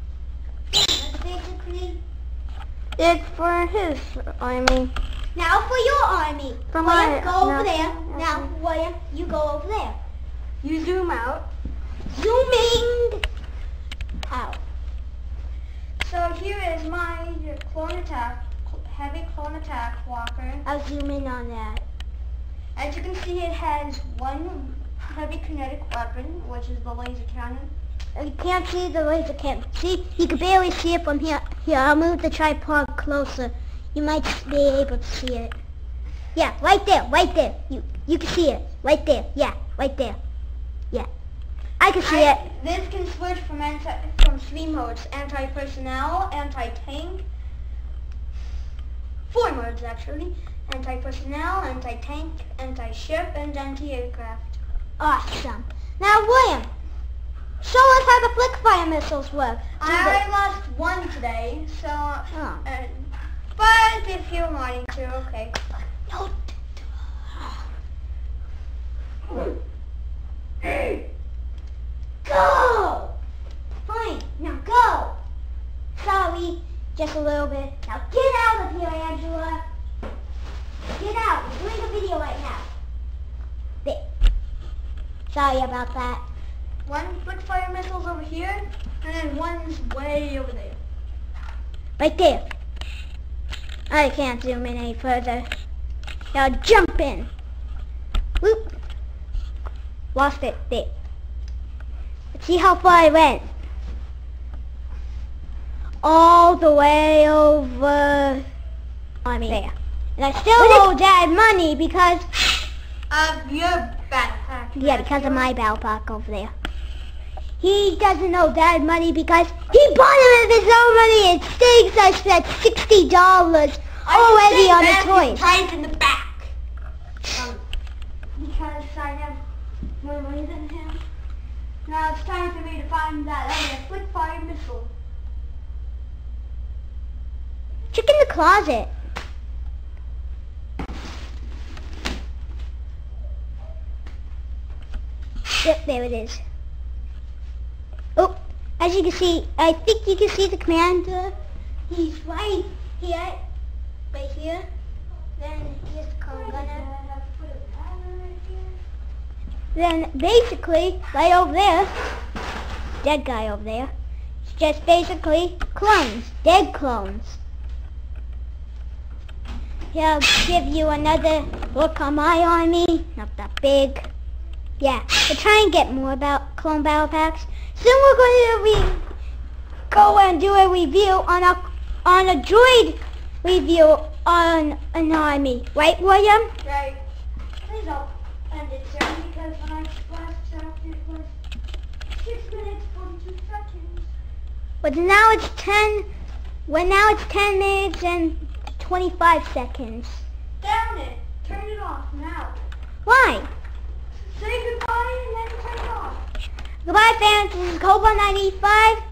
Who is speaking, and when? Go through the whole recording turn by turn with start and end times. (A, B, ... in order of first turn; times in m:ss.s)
0:00.7-0:02.0 A
0:03.0-0:04.9 B
0:05.4-0:10.0 A
0:06.7-0:08.5 B
0:10.6-0:11.5 B
0:12.1-0:13.2 A
0:14.3-0:14.6 A
0:16.0-0:20.6 B
0:20.6-0:21.8 A
0:22.8-0:27.7 B
0:28.2-0:35.6 A
0:36.4-0:40.2 A
0:41.8-0:42.4 A
0:42.0-0:47.2 B
0:49.3-0:54.6 B
0:55.0-0:56.7 A
0:57.6-1:00.2 A
0:59.8-1:05.6 B
1:02.3-1:02.7 A
1:06.1-1:07.7 A
1:12.2-1:13.2 A
1:13.8-1:15.2 A
1:16.0-1:19.6 A
1:20.9-1:22.7 A
1:25.3-1:26.2 A
1:26.9-1:30.8 B
1:32.0-1:32.5 A
1:33.9-1:35.5 A
1:36.3-1:37.3 A
1:38.4-1:38.8 A
1:40.1-1:40.9 A
1:42.3-1:43.5 A
1:46.0-1:48.5 A
1:49.2-1:52.3 A
1:50.6-1:50.9 B
1:53.1-1:55.5 B
1:54.8-1:56.5 A
1:57.6-2:05.5 A
2:04.1-2:06.5 B
2:07.2-2:07.6 B
2:08.4-2:09.4 B
2:10.0-2:11.0 B
2:11.8-2:14.9 B
2:17.9-2:18.9 A
2:25.6-2:26.4 A
2:28.2-2:31.3 A
2:31.9-2:33.4 A
2:34.1-2:34.7 A
2:35.4-2:36.9 A
2:36.3-2:38.8 B
2:39.8-2:42.1 A
2:43.0-2:43.9 A
2:44.4-2:47.4 A
2:49.9-2:54.1 A
2:54.8-2:59.0 A
2:59.9-3:06.5 A
3:06.6-3:07.0 B
3:07.6-3:11.3 B
3:12.1-3:14.1 B
3:14.8-3:16.1 A
3:16.7-3:20.2 A
3:20.6-3:22.6 B
3:23.0-3:23.5 A
3:24.2-3:26.2 B
3:26.8-3:29.0 A